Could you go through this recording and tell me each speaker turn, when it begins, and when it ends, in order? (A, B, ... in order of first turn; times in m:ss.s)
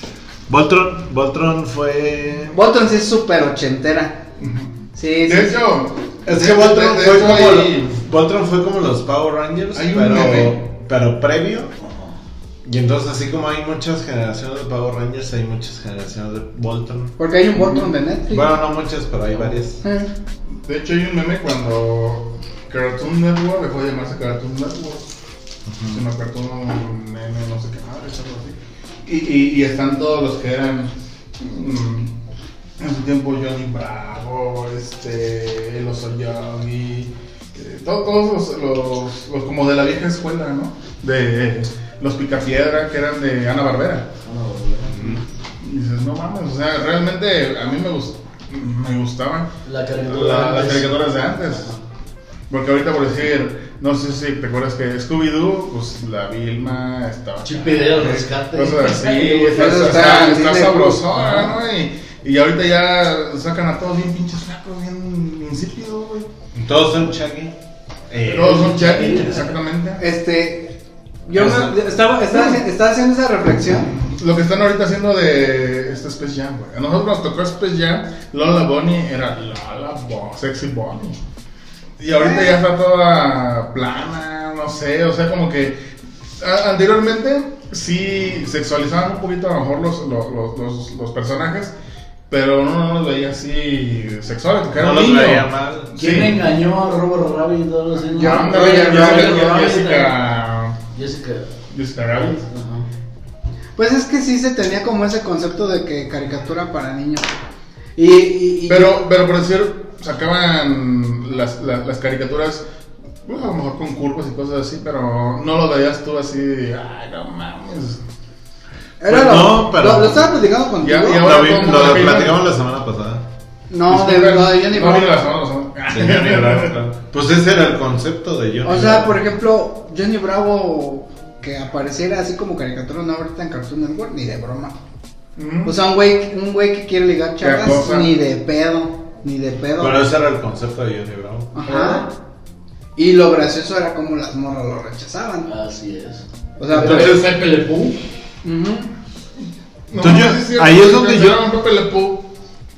0:00.5-0:02.5 A
0:02.5-0:04.2 B
0:04.4-0:08.0 C
0:05.0-0:05.6 B
0:06.2-0:11.7 A
0:09.7-0:10.6 C
0:11.8-0:12.1 D
0:12.6-0:19.8 A
0:17.2-0:18.6 B
0:19.8-0:20.1 B
0:20.5-0:25.1 C
0:25.7-0:26.0 A
0:25.9-0:32.1 C
0:32.8-0:44.1 C
0:44.2-0:45.2 D
0:44.9-0:49.5 C
0:49.6-0:51.8 D
0:50.1-0:51.7 C
0:52.5-1:06.3 C
0:57.4-1:00.3 D
0:59.5-1:01.6 B
1:06.6-1:07.6 A
1:08.1-1:09.0 A
1:08.2-1:10.0 C
1:08.5-1:09.5 D
1:10.0-1:13.9 B
1:11.3-1:11.8 A
1:14.2-1:21.2 C
1:22.0-1:31.7 C
1:22.1-1:22.6 B
1:32.3-1:36.4 C
1:34.7-1:36.0 A
1:36.0-1:40.2 D
1:38.2-1:40.8 C
1:38.2-1:39.7 B
1:40.9-1:41.5 D
1:41.7-1:42.4 C
1:42.5-1:42.9 D
1:43.8-1:47.4 B
1:48.0-1:48.9 B
1:48.7-1:52.6 C
1:53.2-1:58.0 C
1:59.0-2:01.3 B
1:59.0-2:00.3 A
2:00.8-2:02.4 C
2:01.2-2:03.3 A
2:03.7-2:05.2 B
2:03.9-2:06.8 C
2:05.9-2:09.2 A
2:08.6-2:14.8 B
2:15.4-2:15.8 C
2:15.6-2:20.0 B
2:17.4-2:18.1 C
2:19.8-2:21.5 A
2:21.6-2:22.1 B
2:21.6-2:22.1 D
2:23.0-2:25.5 B
2:25.4-2:27.9 D
2:26.6-2:27.2 B
2:26.7-2:27.9 C
2:28.4-2:28.9 B
2:29.9-2:32.3 C
2:30.0-2:31.4 A